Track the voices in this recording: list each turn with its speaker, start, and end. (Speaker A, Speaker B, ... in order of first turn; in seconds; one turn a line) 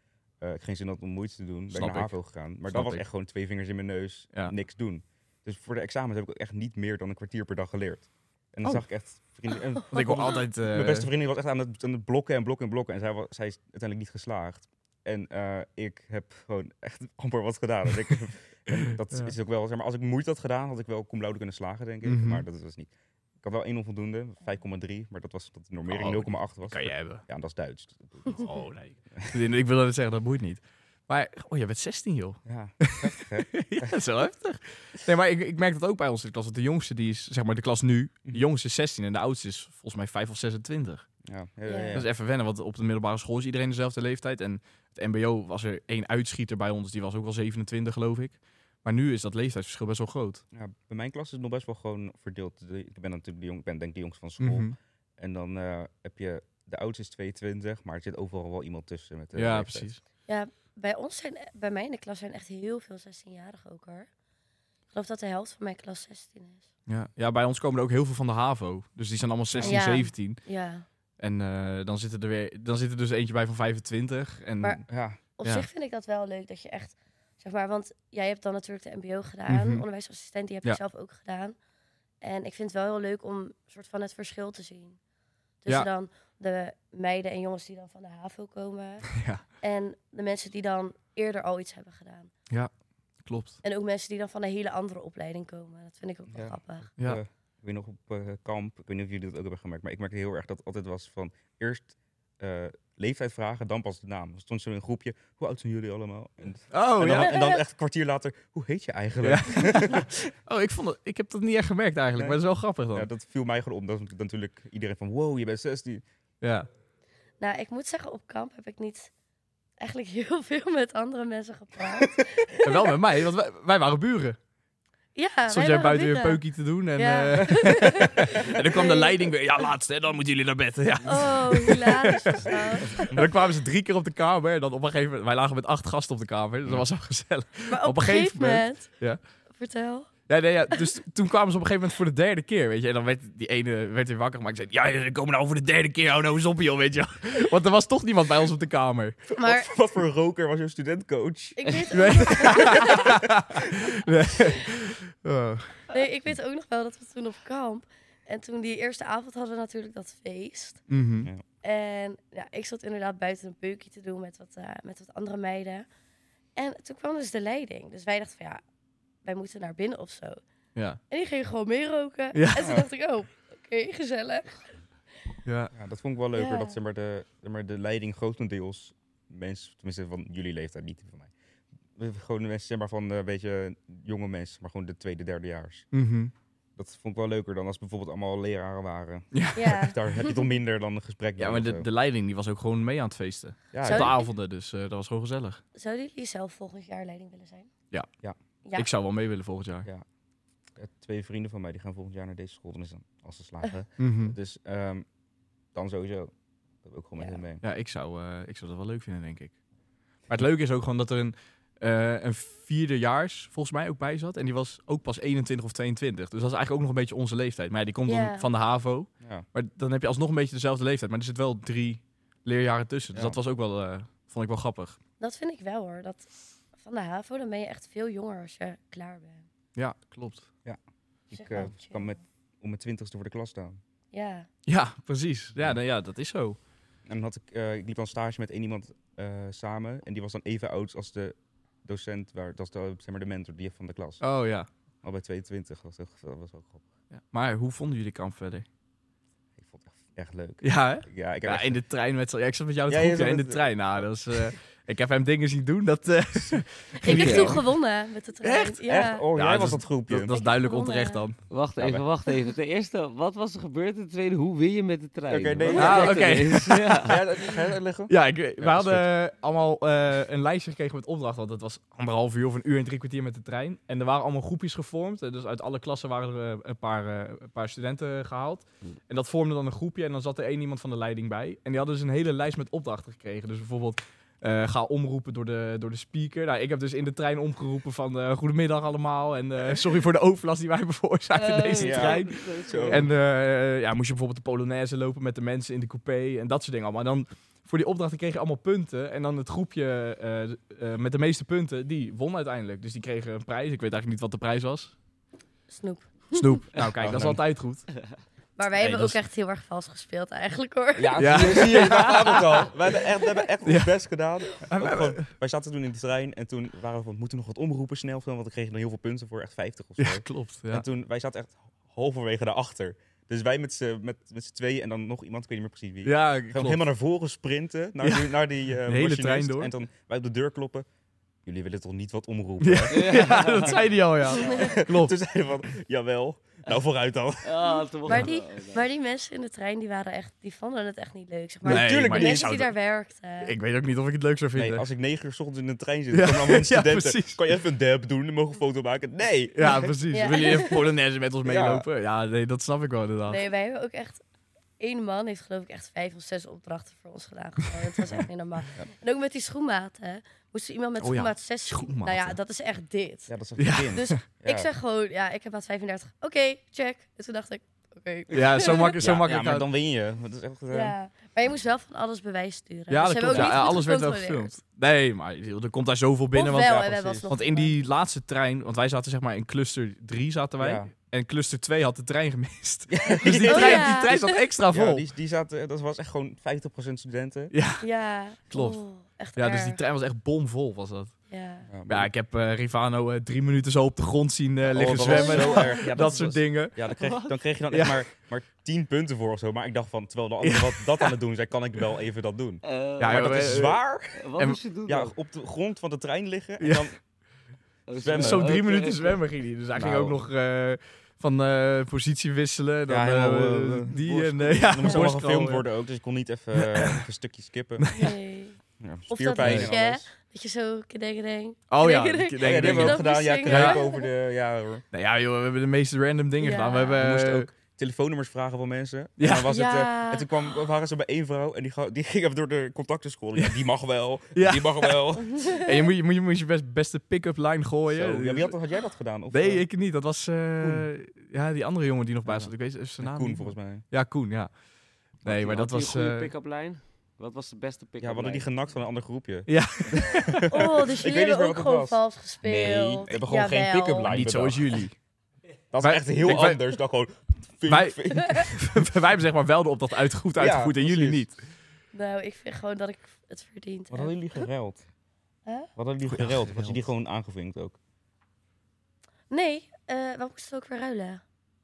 Speaker A: 0.4-22.9
Speaker B: 1.7-2.1
Speaker B: 2.6-3.0
Speaker B: 9.9-11.1
Speaker B: 22.0-22.4
Speaker A: 23.4-28.4
Speaker B: 25.9-27.2
Speaker B: 28.4-41.1
Speaker A: 32.5-33.9
Speaker A: 41.2-42.1
Speaker C: 41.7-42.0
Speaker B: 41.9-50.4
Speaker A: 50.5-59.9
Speaker B: 54.4-54.7
Speaker B: 59.3-60.0
Speaker C: 60.3-64.1
Speaker C: 64.9-66.7
Speaker B: 66.9-70.5
Speaker A: 69.5-69.9
Speaker C: 69.6-70.8
Speaker B: 71.2-74.8
Speaker A: 74.9-75.2
Speaker C: 75.3-81.5
Speaker B: 79.5-79.8
Speaker C: 82.2-85.0
Speaker C: 85.6-92.3
Speaker B: 89.1-89.4
Speaker B: 93.2-93.6
Speaker C: 93.6-96.9
Speaker A: 96.3-110.3
Speaker B: 106.7-107.3
Speaker C: 107.1-107.6
Speaker B: 109.2-113.1
Speaker A: 112.9-116.0
Speaker B: 116.4-116.7
Speaker C: 117.4-119.1
Speaker C: 119.8-122.7
Speaker B: 122.6-124.4
Speaker C: 125.2-126.4
Speaker B: 125.5-139.2
Speaker C: 127.0-129.2
Speaker A: 127.6-128.0
Speaker C: 131.0-133.3
Speaker C: 137.7-138.9
Speaker C: 139.5-140.1
Speaker B: 140.3-149.2
Speaker C: 149.3-149.7
Speaker A: 149.4-151.6
Speaker C: 151.6-153.1
Speaker B: 151.9-155.8
Speaker A: 152.5-153.7
Speaker C: 155.9-160.8
Speaker B: 160.9-161.3
Speaker C: 161.6-165.9
Speaker C: 166.6-168.6
Speaker C: 169.2-170.4
Speaker C: 171.1-174.8
Speaker B: 172.3-172.8
Speaker B: 175.4-175.7
Speaker A: 175.7-181.3
Speaker C: 176.3-176.8
Speaker A: 181.9-185.9
Speaker B: 185.9-186.3
Speaker A: 186.8-191.9
Speaker B: 189.3-189.7
Speaker C: 189.5-190.4
Speaker B: 191.4-195.6
Speaker A: 193.7-194.2
Speaker C: 193.8-194.3
Speaker C: 195.7-197.7
Speaker C: 198.6-198.9
Speaker B: 198.7-199.9
Speaker A: 200.8-205.1
Speaker B: 204.0-204.3
Speaker A: 205.7-206.3
Speaker A: 206.8-207.6
Speaker B: 207.6-209.5
Speaker B: 210.3-225.0
Speaker C: 218.1-218.5
Speaker A: 223.1-223.4
Speaker C: 225.2-229.5
Speaker B: 229.8-230.5
Speaker A: 231.3-233.8
Speaker C: 231.3-232.2
Speaker C: 234.1-234.5
Speaker B: 234.7-236.6
Speaker A: 237.1-244.2
Speaker B: 244.2-244.7
Speaker A: 245.0-246.8
Speaker B: 247.1-248.7
Speaker A: 249.6-251.8
Speaker B: 250.6-257.6
Speaker A: 252.9-254.4
Speaker C: 257.0-259.2
Speaker D: 257.1-257.6
Speaker B: 258.4-258.8
Speaker A: 258.9-260.4
Speaker B: 259.3-261.4
Speaker C: 260.3-261.2
Speaker D: 261.5-267.6
Speaker A: 261.8-262.0
Speaker A: 265.3-269.1
Speaker B: 265.7-267.2
Speaker B: 268.1-304.9
Speaker D: 291.3-293.1
Speaker A: 291.8-293.1
Speaker C: 305.7-306.6
Speaker B: 306.3-307.9
Speaker A: 306.9-307.4
Speaker C: 308.6-311.7
Speaker B: 308.8-309.2
Speaker A: 311.0-330.9
Speaker B: 311.2-312.6
Speaker B: 313.6-313.9
Speaker B: 314.7-315.3
Speaker B: 320.0-320.8
Speaker B: 326.0-326.8
Speaker B: 328.0-329.7
Speaker A: 331.4-337.5
Speaker B: 332.6-335.1
Speaker D: 332.9-334.8
Speaker D: 337.4-338.9
Speaker C: 338.0-343.5
Speaker A: 341.6-342.5
Speaker B: 341.6-342.8
Speaker B: 343.4-344.8
Speaker A: 344.5-349.9
Speaker B: 346.1-347.4
Speaker B: 349.6-353.4
Speaker C: 350.1-350.9
Speaker A: 351.4-351.9
Speaker C: 353.3-354.2
Speaker C: 354.8-363.3
Speaker B: 361.0-362.4
Speaker A: 363.3-364.7
Speaker B: 363.6-364.2
Speaker C: 363.9-369.0
Speaker B: 368.3-369.6
Speaker A: 368.9-370.9
Speaker C: 370.7-374.5
Speaker B: 372.9-385.0
Speaker A: 373.3-373.7
Speaker C: 376.3-377.7
Speaker A: 376.6-377.2
Speaker A: 380.6-380.9
Speaker A: 382.9-387.5
Speaker C: 383.4-384.1
Speaker B: 387.5-387.8
Speaker C: 387.8-389.8
Speaker B: 388.5-388.8
Speaker B: 389.4-391.1
Speaker C: 391.3-391.7
Speaker A: 391.7-392.1
Speaker B: 391.9-396.9
Speaker A: 394.7-404.3
Speaker C: 394.9-395.9
Speaker D: 396.9-397.3
Speaker B: 397.7-398.0
Speaker B: 400.4-401.1
Speaker D: 402.6-403.4
Speaker B: 403.0-403.8
Speaker D: 404.1-405.1
Speaker A: 404.9-407.0
Speaker B: 406.6-406.9
Speaker D: 407.9-409.2
Speaker A: 407.9-408.5
Speaker B: 408.1-415.7
Speaker A: 409.8-410.2
Speaker A: 412.9-417.9
Speaker B: 416.5-417.1
Speaker B: 417.8-418.1
Speaker C: 417.9-424.1
Speaker A: 418.8-420.1
Speaker B: 419.4-419.7
Speaker B: 421.7-423.8
Speaker A: 422.4-424.8
Speaker B: 424.9-427.5
Speaker C: 426.4-427.0
Speaker A: 427.0-435.5
Speaker B: 429.2-429.5
Speaker C: 429.5-430.3
Speaker B: 434.4-438.5
Speaker C: 435.2-435.7
Speaker A: 437.9-439.7
Speaker B: 439.3-444.6
Speaker A: 440.6-440.9
Speaker A: 442.2-443.8
Speaker B: 445.2-446.3
Speaker A: 445.2-445.5
Speaker D: 445.4-448.5
Speaker A: 448.0-454.8
Speaker B: 449.5-450.5
Speaker C: 450.5-454.1
Speaker B: 454.0-455.0
Speaker A: 455.7-458.5
Speaker B: 455.8-456.6
Speaker B: 457.7-461.4
Speaker A: 460.3-461.3
Speaker C: 461.9-464.5
Speaker A: 463.9-464.8
Speaker A: 465.8-467.8
Speaker B: 466.1-466.8
Speaker C: 469.3-471.2